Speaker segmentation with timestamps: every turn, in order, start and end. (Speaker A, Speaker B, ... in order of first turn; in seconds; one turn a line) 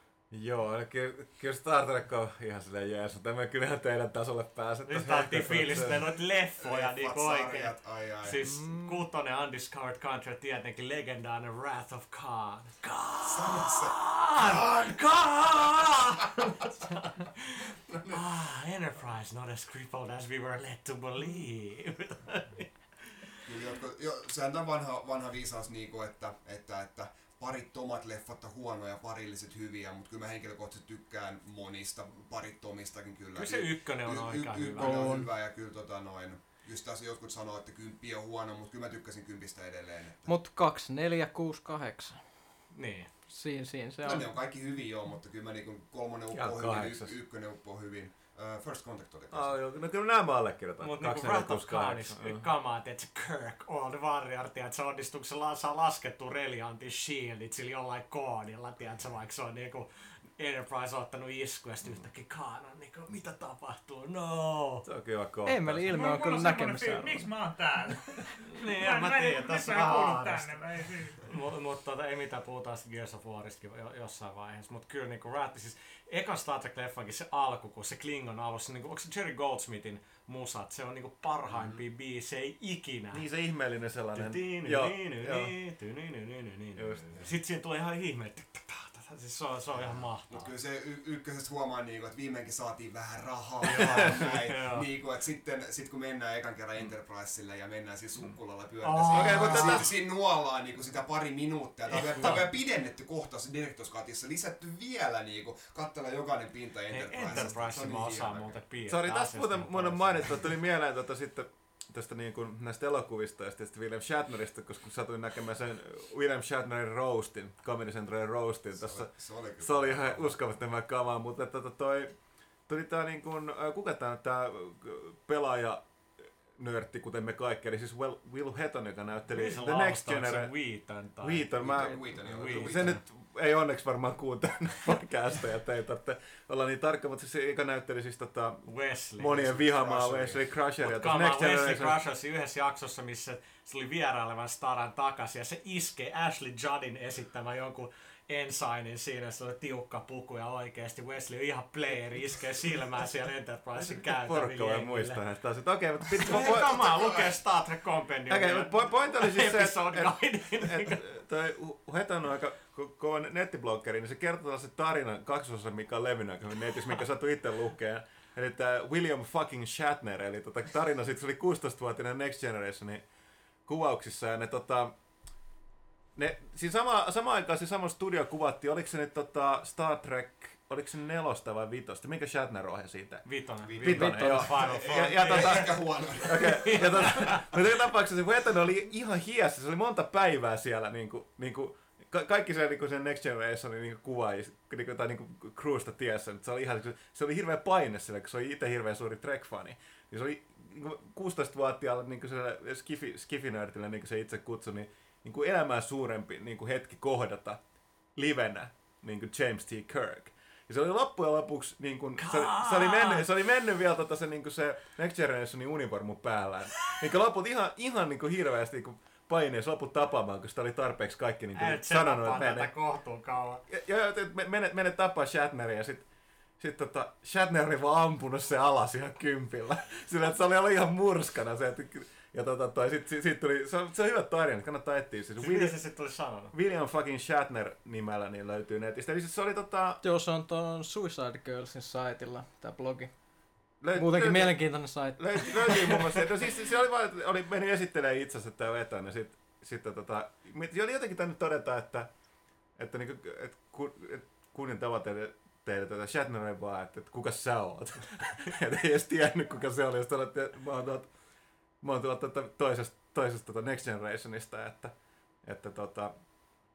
Speaker A: 0.3-6.0
Speaker B: 4.9-22.9
Speaker C: 6.6-8.4
Speaker A: 8.5-8.9
Speaker C: 13.2-14.9
Speaker C: 23.4-40.3
Speaker B: 33.4-35.2
Speaker D: 34.8-35.3
Speaker D: 40.2-42.5
Speaker B: 42.7-43.1
Speaker D: 43.2-44.4
Speaker C: 44.0-49.6
Speaker A: 46.3-47.1
Speaker A: 49.3-52.5
Speaker B: 50.8-64.8
Speaker A: 64.8-65.9
Speaker D: 65.5-67.5
Speaker E: 65.9-71.2
Speaker B: 68.5-70.6
Speaker B: 71.2-83.2
Speaker C: 81.5-81.8
Speaker A: 83.1-85.5
Speaker B: 84.1-90.5
Speaker A: 86.8-87.3
Speaker C: 89.7-108.6
Speaker B: 93.6-94.9
Speaker A: 93.8-94.3
Speaker B: 98.8-99.9
Speaker A: 99.1-99.9
Speaker B: 101.9-102.5
Speaker A: 101.9-102.4
Speaker B: 106.9-110.5
Speaker A: 108.8-122.2
Speaker C: 118.8-120.4
Speaker A: 122.7-130.6
Speaker B: 129.3-133.0
Speaker A: 131.2-142.0
Speaker C: 131.5-133.0
Speaker B: 138.7-139.6
Speaker C: 139.6-140.5
Speaker B: 140.8-155.2
Speaker A: 153.8-157.3
Speaker B: 156.2-161.0
Speaker A: 158.3-173.0
Speaker A: 173.7-174.9
Speaker A: 176.2-207.6
Speaker B: 183.3-187.5
Speaker C: 183.7-187.5
Speaker A: 208.2-222.7
Speaker B: 212.2-213.3
Speaker B: 221.6-223.6
Speaker A: 223.7-226.1
Speaker A: 226.6-235.8
Speaker B: 235.4-236.5
Speaker A: 236.5-240.0
Speaker D: 240.0-243.2
Speaker A: 243.8-252.1
Speaker D: 243.9-246.5
Speaker A: 252.8-261.1
Speaker A: 261.8-266.2